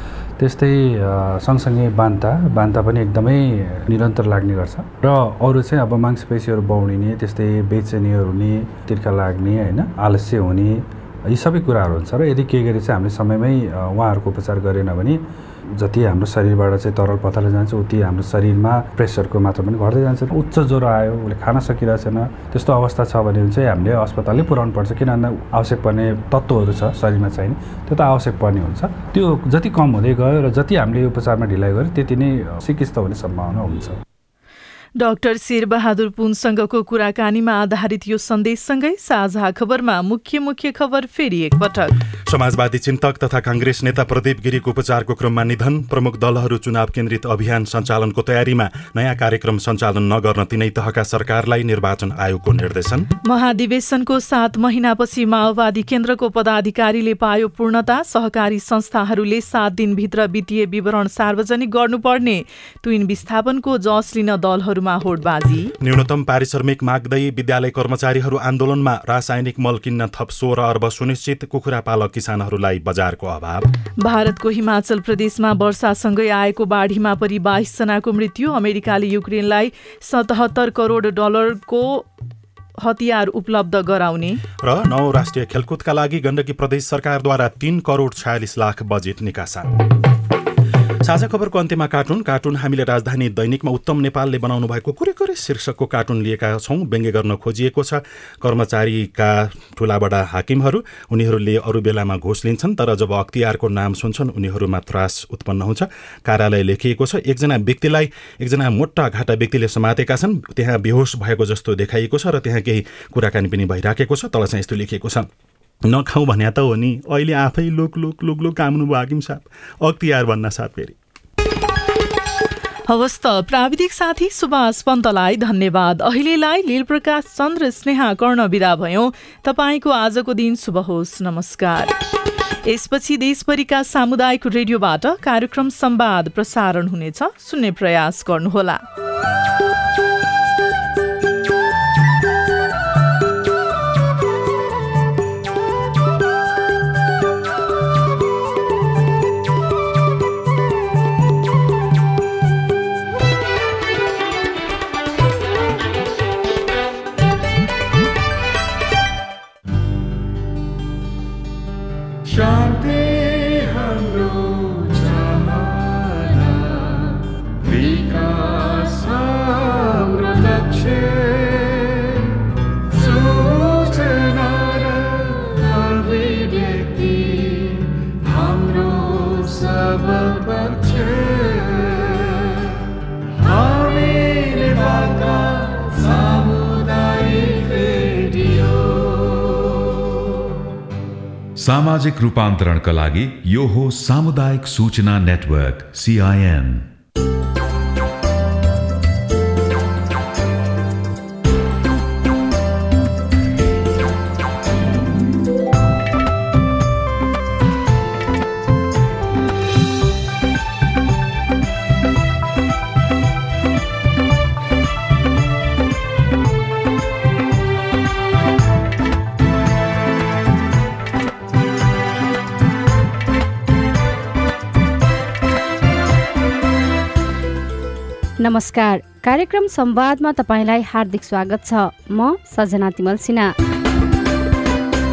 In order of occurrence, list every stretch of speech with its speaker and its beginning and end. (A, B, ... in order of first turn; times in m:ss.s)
0:00.4-0:15.2 A
0:15.8-0:34.0 A
0:35.0-0:41.9 B
0:42.3-0:53.1 C
0:53.2-1:05.7 B
1:05.8-1:13.6 C
1:14.0-1:22.0 B
1:22.8-1:24.4 B
1:24.6-1:29.7 C
1:31.0-1:55.2 C
1:55.9-2:01.0 C
2:02.9-2:11.9 B
2:12.6-2:18.8 B
3:11.6-3:16.8 D
3:48.4-3:53.4 E